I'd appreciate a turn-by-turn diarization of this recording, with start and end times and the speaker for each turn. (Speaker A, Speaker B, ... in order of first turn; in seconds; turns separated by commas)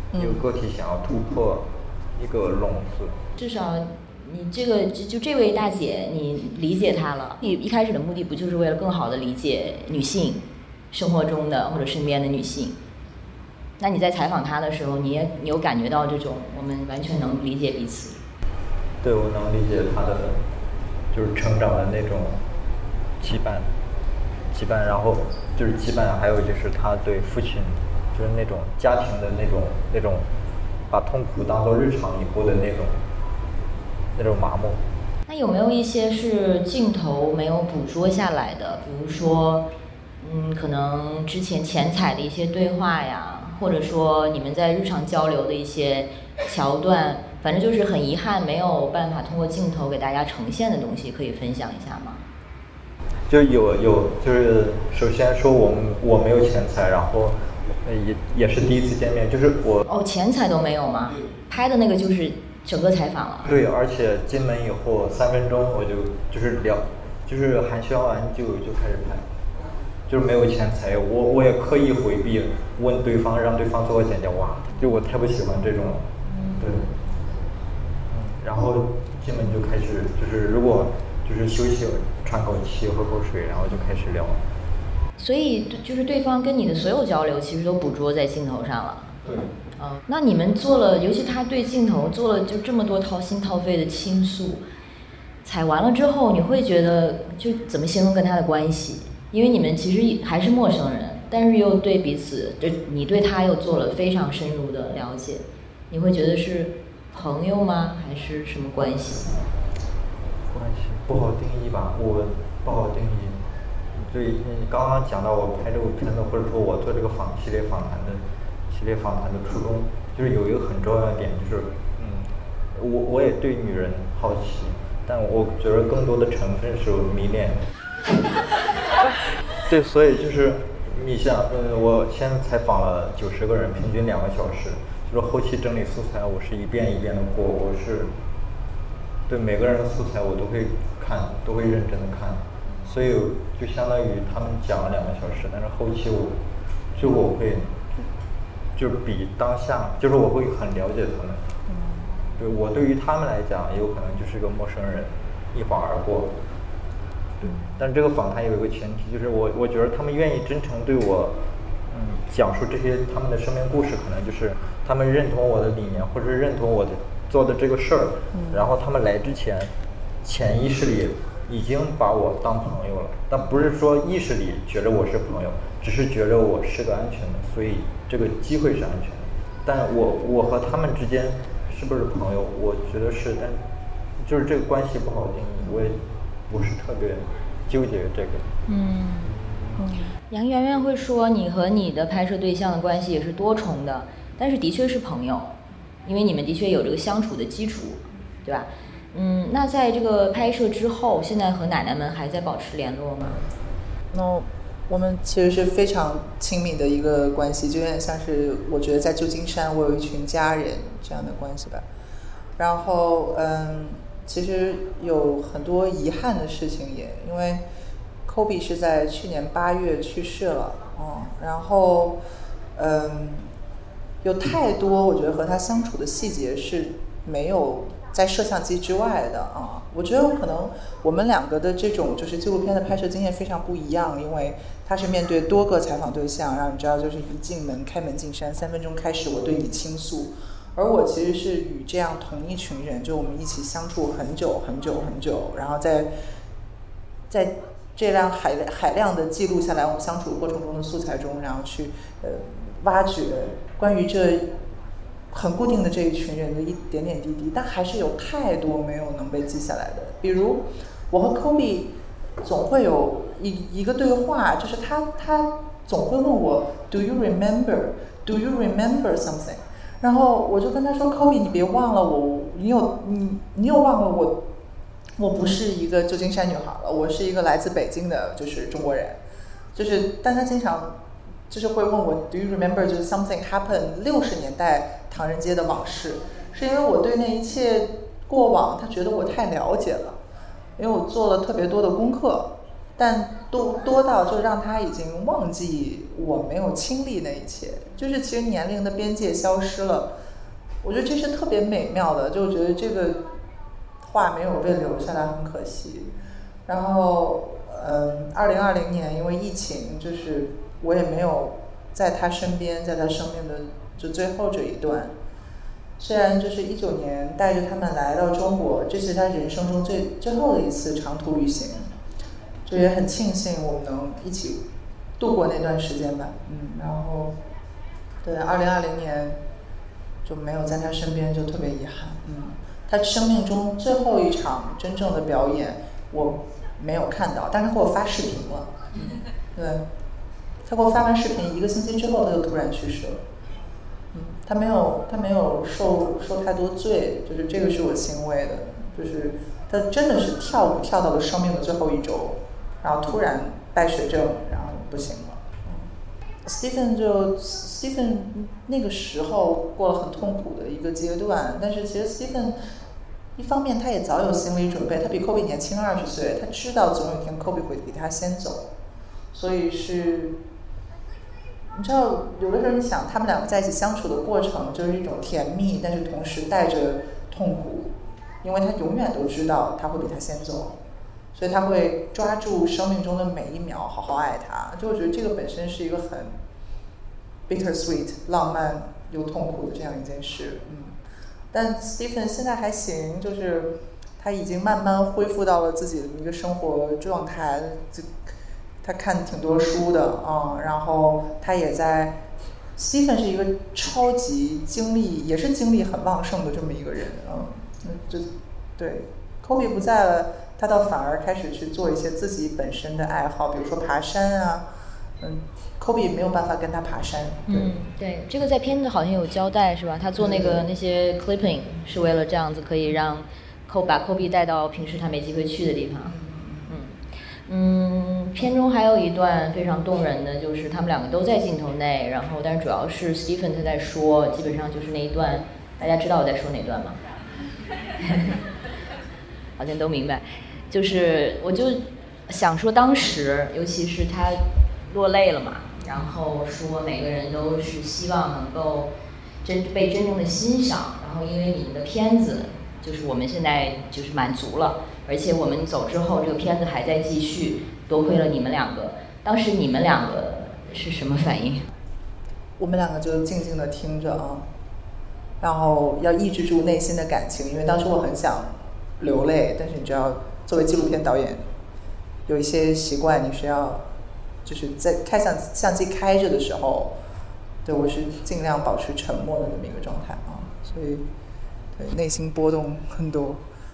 Speaker A: 0.1-0.4, Speaker B: 0.2-3.2, Speaker C: 3.4-12.8, Speaker C: 13.8-18.2, Speaker B: 19.0-20.4, Speaker B: 21.1-22.4, Speaker B: 23.2-23.7, Speaker B: 24.5-30.3, Speaker B: 30.9-33.0, Speaker B: 34.1-34.8, Speaker C: 35.3-39.7, Speaker C: 40.2-52.2, Speaker B: 53.3-59.9, Speaker C: 59.9-63.5, Speaker B: 63.5-69.3, Speaker B: 70.1-76.8, Speaker B: 78.1-84.4, Speaker C: 85.2-89.1, Speaker B: 89.2-89.5, Speaker C: 89.8-94.6, Speaker C: 95.4-109.4, Speaker B: 110.5-113.4, Speaker B: 114.0-127.6, Speaker B: 129.6-138.1, Speaker B: 139.3-146.4, Speaker B: 146.9-147.8, Speaker B: 148.8-151.5, Speaker A: 151.7-152.2, Speaker B: 152.4-156.3, Speaker B: 157.4-161.4, Speaker B: 161.9-169.7, Speaker A: 168.3-168.6, Speaker B: 170.2-183.6, Speaker B: 184.2-188.5, Speaker C: 188.7-189.3, Speaker A: 189.8-190.1, Speaker C: 190.3-195.6, Speaker C: 196.1-203.4, Speaker A: 204.1-211.8, Speaker A: 212.6-217.6, Speaker A: 218.3-222.2, Speaker A: 222.8-223.5, Speaker A: 224.2-246.1, Speaker A: 247.3-254.5, Speaker A: 255.3-274.4, Speaker A: 275.2-279.2, Speaker A: 279.8-281.0, Speaker A: 281.5-290.2, Speaker A: 290.8-300.1, Speaker A: 300.8-303.3, Speaker A: 304.0-306.1, Speaker A: 306.7-315.1, Speaker A: 316.0-321.9, Speaker A: 322.7-324.6, Speaker A: 325.2-327.3, Speaker A: 328.2-329.4, Speaker A: 330.2-339.9, Speaker A: 340.6-343.2, Speaker A: 344.1-355.9, Speaker A: 356.4-362.6, Speaker A: 363.4-368.7, Speaker A: 369.3-370.4, Speaker A: 371.7-380.8, Speaker A: 381.3-386.4, Speaker A: 387.5-390.9, Speaker A: 391.5-398.3, Speaker A: 398.8-402.2, Speaker A: 402.8-414.7, Speaker A: 415.2-417.7, Speaker C: 417.5-426.1, Speaker A: 420.2-420.6, Speaker A: 426.0-426.8, Speaker C: 426.7-437.0, Speaker C: 438.0-438.4, Speaker C: 439.6-448.9, Speaker C: 449.4-461.7, Speaker A: 462.6-464.5, Speaker A: 465.4-471.5, Speaker A: 472.3-473.9, Speaker A: 474.4-476.9, Speaker A: 477.6-481.1, Speaker A: 481.8-483.4